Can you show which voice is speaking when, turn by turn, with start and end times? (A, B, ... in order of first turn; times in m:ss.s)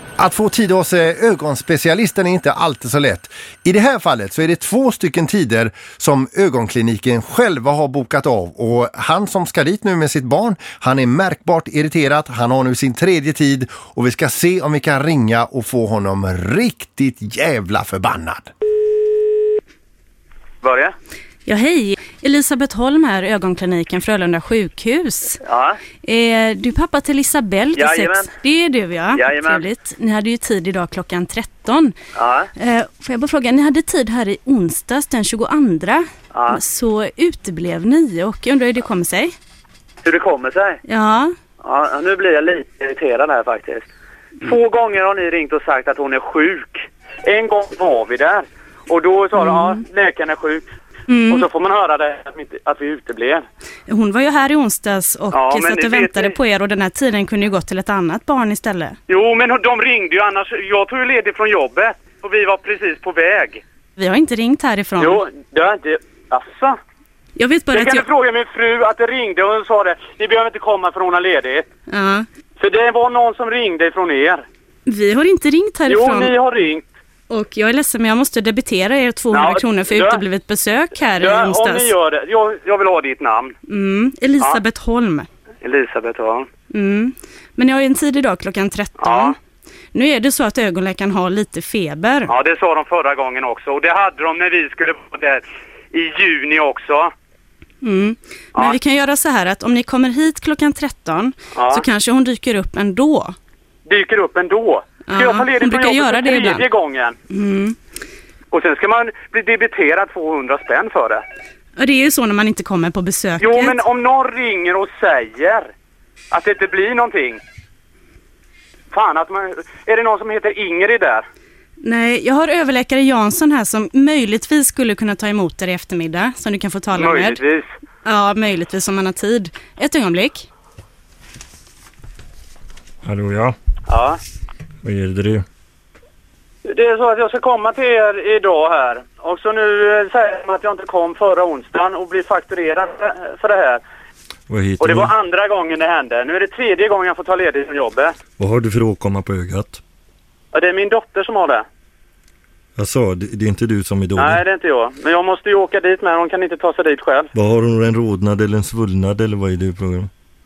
0:00.2-0:18.5 A
0:20.6-0:20.9 B
0:21.4-0:25.4 C
0:25.4-0:25.8 B
0:26.0-0:31.9 C
0:27.8-0:28.3 B
0:29.1-0:29.6 B
0:32.1-0:32.5 B
0:32.6-0:39.3 C
0:36.3-0:36.6 B
0:40.0-0:40.8 B
0:40.8-0:41.3 C
0:41.6-0:43.9 B
0:44.4-0:50.6 B
0:49.4-0:49.8 C
0:51.1-0:51.4 C
0:51.3-0:53.4 B
0:53.9-0:59.0 C
0:55.3-0:56.3 B
0:59.1-1:03.6 B
1:04.0-1:05.2 C
1:05.0-1:06.8 B
1:07.4-1:08.0 C
1:07.7-1:11.6 B
1:11.9-1:12.2 C
1:12.6-1:14.4 B
1:14.8-1:16.3 C
1:15.9-1:16.8 B
1:17.3-1:21.9 C
1:19.3-1:20.2 B
1:21.2-1:23.5 B
1:23.7-1:25.3 C
1:25.6-1:26.5 B
1:26.7-1:29.4 C
1:29.0-1:29.3 B
1:29.9-1:32.3 C
1:32.3-1:37.1 B
1:37.8-1:43.3 C
1:41.5-1:41.8 B
1:43.8-1:47.1 B
1:45.1-1:46.6 C
1:47.3-1:47.8 C
1:48.5-1:51.2 B
1:51.8-1:53.8 C
1:53.4-1:55.7 B
1:56.3-1:57.4 B
1:58.9-2:01.2 B
2:01.8-2:07.4 C
2:06.9-2:07.7 B
2:08.0-2:10.5 C
2:13.0-2:13.5 D
2:13.9-2:14.2 B
2:14.8-2:15.4 D
2:16.6-2:23.8 B
2:24.5-2:25.1 D
2:24.8-2:28.1 B
2:28.4-2:29.8 D
2:30.5-2:31.6 B
2:32.8-2:34.4 D
2:34.2-2:37.3 B
2:37.3-2:40.1 D